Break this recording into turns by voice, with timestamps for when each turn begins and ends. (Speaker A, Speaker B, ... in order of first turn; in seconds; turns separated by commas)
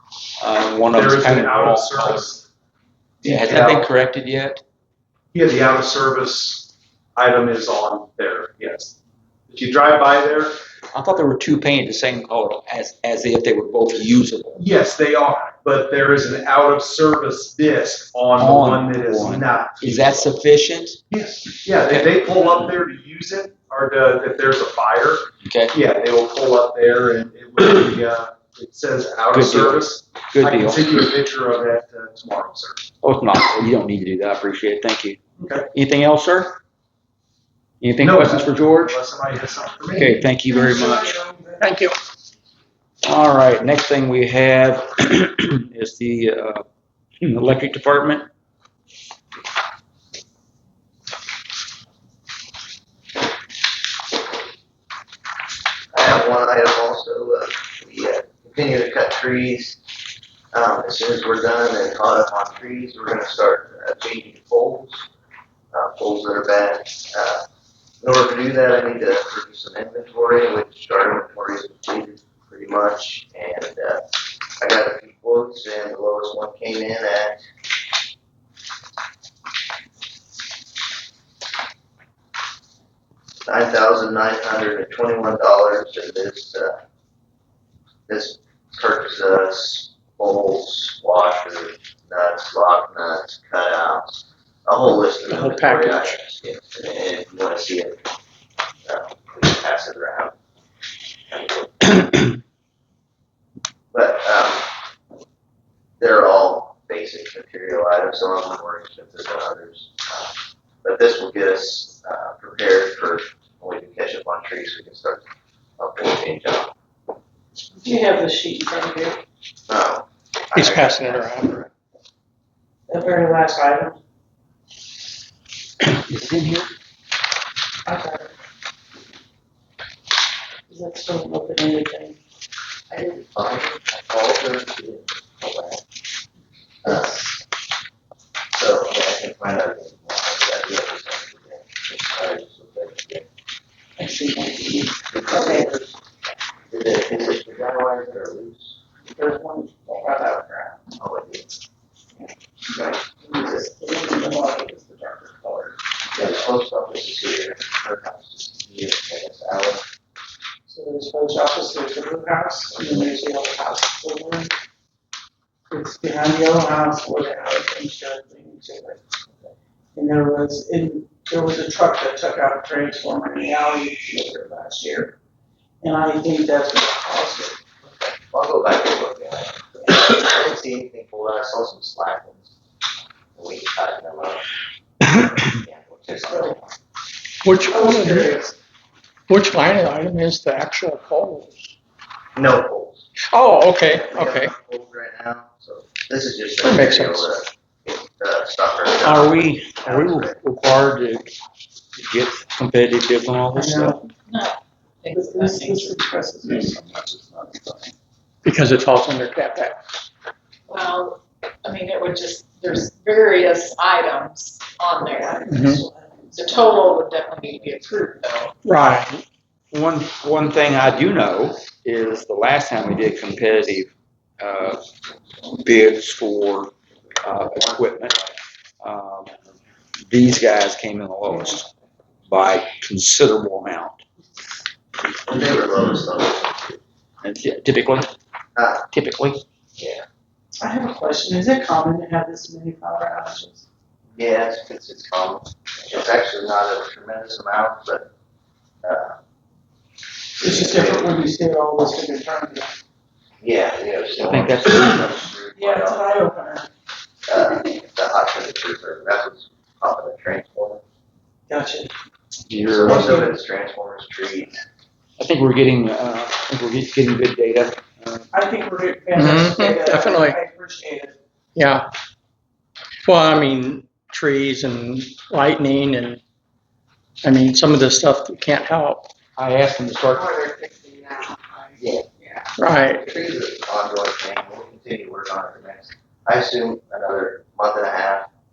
Speaker A: 0.4-2.3, Speaker B: 0.9-2.4, Speaker B: 3.2-3.9, Speaker A: 3.2-4.6, Speaker B: 5.3-8.9, Speaker B: 9.5-10.6, Speaker A: 10.9-14.6, Speaker B: 14.6-20.2, Speaker A: 18.4-21.0, Speaker B: 21.1-32.8, Speaker A: 21.8-22.1, Speaker A: 25.4-25.7, Speaker A: 29.3-30.9, Speaker A: 33.0-35.2, Speaker B: 35.4-35.7, Speaker A: 35.7-36.5, Speaker A: 37.8-39.0, Speaker B: 38.0-40.3, Speaker A: 39.9-41.1, Speaker C: 40.4-41.6, Speaker D: 41.6-42.0, Speaker A: 43.0-46.6, Speaker A: 47.2-48.3, Speaker E: 55.9-59.8, Speaker E: 60.5-65.1, Speaker E: 65.7-67.5, Speaker E: 68.0-74.0, Speaker E: 74.6-77.4, Speaker E: 83.5-86.8, Speaker E: 88.1-98.0, Speaker D: 95.3-96.1, Speaker E: 98.8-100.3, Speaker E: 101.3-102.3, Speaker E: 103.9-104.7, Speaker E: 106.0-115.2, Speaker E: 115.8-116.7, Speaker C: 117.8-119.2, Speaker E: 119.7-121.7, Speaker D: 120.5-121.6, Speaker C: 122.9-124.0, Speaker A: 125.9-126.7, Speaker C: 127.8-128.3, Speaker C: 130.7-132.1, Speaker E: 132.9-135.8, Speaker E: 136.8-137.2, Speaker C: 136.9-137.3, Speaker E: 138.5-143.2, Speaker C: 144.0-145.7, Speaker E: 145.1-145.9, Speaker E: 146.7-148.8, Speaker C: 149.1-150.8, Speaker E: 151.0-151.5, Speaker E: 152.7-153.0, Speaker C: 153.2-155.7, Speaker E: 156.1-159.8, Speaker C: 160.7-164.5, Speaker C: 165.8-169.0, Speaker C: 170.0-175.1, Speaker C: 175.8-177.6, Speaker E: 177.8-182.5, Speaker E: 183.3-184.4, Speaker E: 185.1-186.7, Speaker D: 187.4-188.4, Speaker C: 187.7-188.5, Speaker D: 189.3-191.7, Speaker E: 192.3-193.1, Speaker D: 193.3-194.5, Speaker E: 193.9-200.4, Speaker D: 196.6-197.3, Speaker A: 199.0-201.3, Speaker A: 201.9-204.0, Speaker C: 203.5-204.1, Speaker F: 204.2-206.0, Speaker C: 205.2-207.9, Speaker D: 208.4-209.8, Speaker F: 210.7-215.6, Speaker C: 215.1-216.9, Speaker D: 215.5-215.8, Speaker F: 216.3-218.5, Speaker D: 218.6-219.2, Speaker A: 219.7-224.8, Speaker A: 225.6-228.1, Speaker E: 227.4-228.3, Speaker A: 228.8-229.3, Speaker A: 230.1-231.7, Speaker A: 232.3-234.0, Speaker E: 235.2-236.8, Speaker A: 237.2-238.1, Speaker E: 238.6-238.9, Speaker A: 238.9-239.4, Speaker E: 239.8-240.1, Speaker C: 240.6-243.6, Speaker E: 244.2-248.1, Speaker E: 248.8-249.2, Speaker C: 250.4-252.7, Speaker E: 250.4-251.2, Speaker E: 253.4-256.3, Speaker A: 254.2-255.2, Speaker C: 255.5-256.7, Speaker E: 257.3-260.8, Speaker C: 261.5-261.9, Speaker A: 262.5-263.1, Speaker E: 262.6-264.6, Speaker C: 262.8-263.3, Speaker A: 265.2-268.3, Speaker C: 268.4-271.1, Speaker D: 269.1-270.4, Speaker D: 271.6-271.9, Speaker D: 273.1-276.2, Speaker D: 277.2-279.1, Speaker A: 279.4-280.3, Speaker F: 280.1-282.5, Speaker E: 281.8-282.0, Speaker D: 282.6-283.0, Speaker E: 283.0-288.3